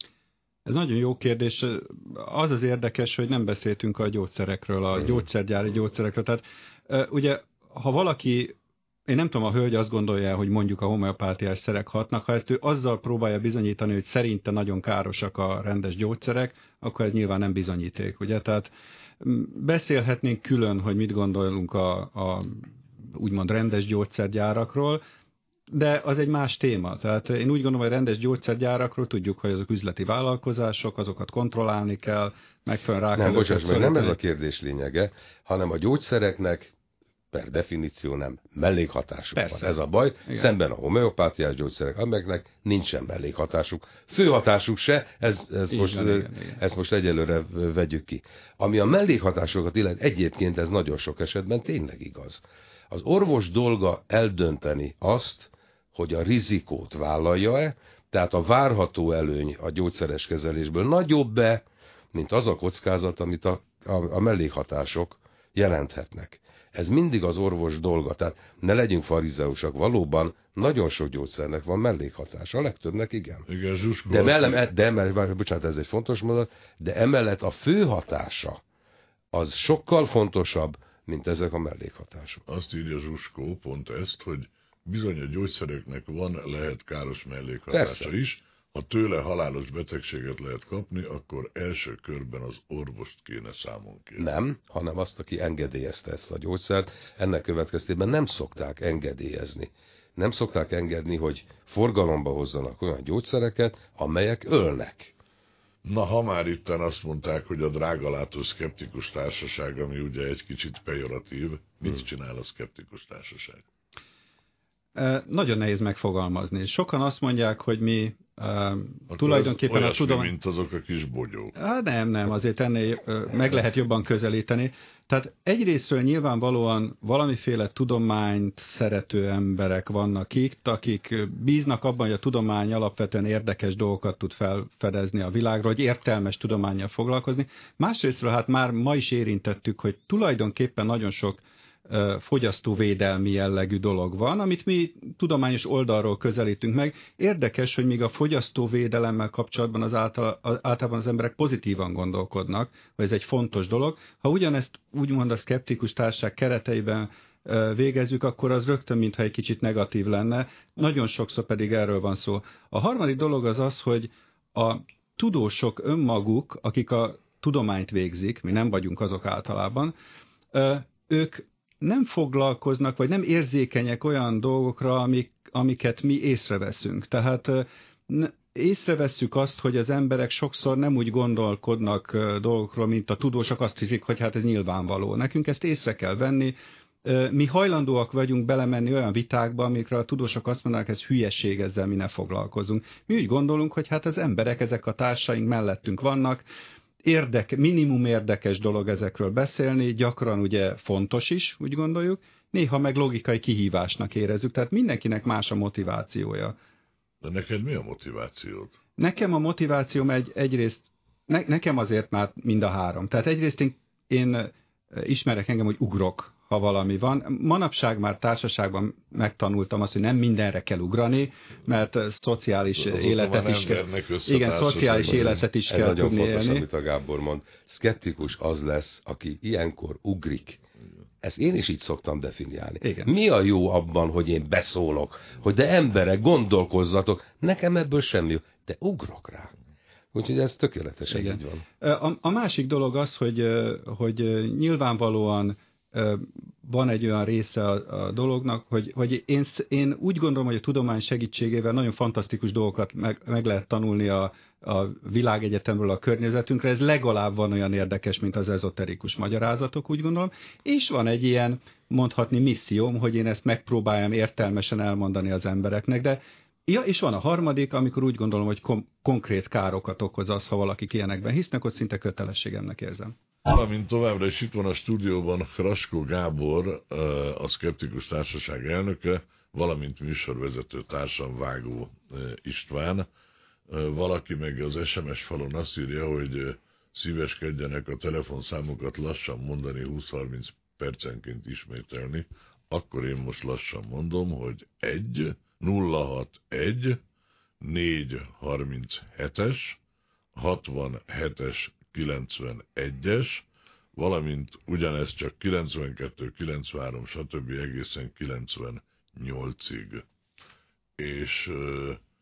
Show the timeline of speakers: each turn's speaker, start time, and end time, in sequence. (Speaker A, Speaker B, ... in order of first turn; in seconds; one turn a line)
Speaker A: 0.7-8.5
Speaker A: 9.1-18.7
Speaker A: 19.2-25.0
Speaker A: 25.7-34.2
Speaker B: 33.1-36.7
Speaker B: 37.3-73.5
Speaker A: 39.4-39.7
Speaker A: 45.7-46.6
Speaker C: 73.5-74.7
Speaker B: 74.1-78.6
Speaker B: 79.3-82.4
Speaker C: 82.5-94.2
Speaker B: 87.7-88.1
Speaker B: 94.2-105.1
Speaker C: 105.8-113.6
Speaker A: 115.0-120.3
Speaker C: 119.1-121.5
Speaker A: 121.5-169.9
Speaker A: 170.5-196.4
Speaker A: 197.0-206.5
Speaker C: 207.2-208.8
Speaker A: 209.0-226.6
Speaker C: 222.8-225.4
Speaker B: 225.7-230.6
Speaker B: 231.2-239.5
Speaker A: 232.8-233.1
Speaker B: 240.1-241.6
Speaker A: 241.1-273.1
Speaker C: 273.4-283.1
Speaker C: 283.7-297.0
Speaker C: 297.6-299.8
Speaker C: 300.3-310.0
Speaker C: 311.0-312.0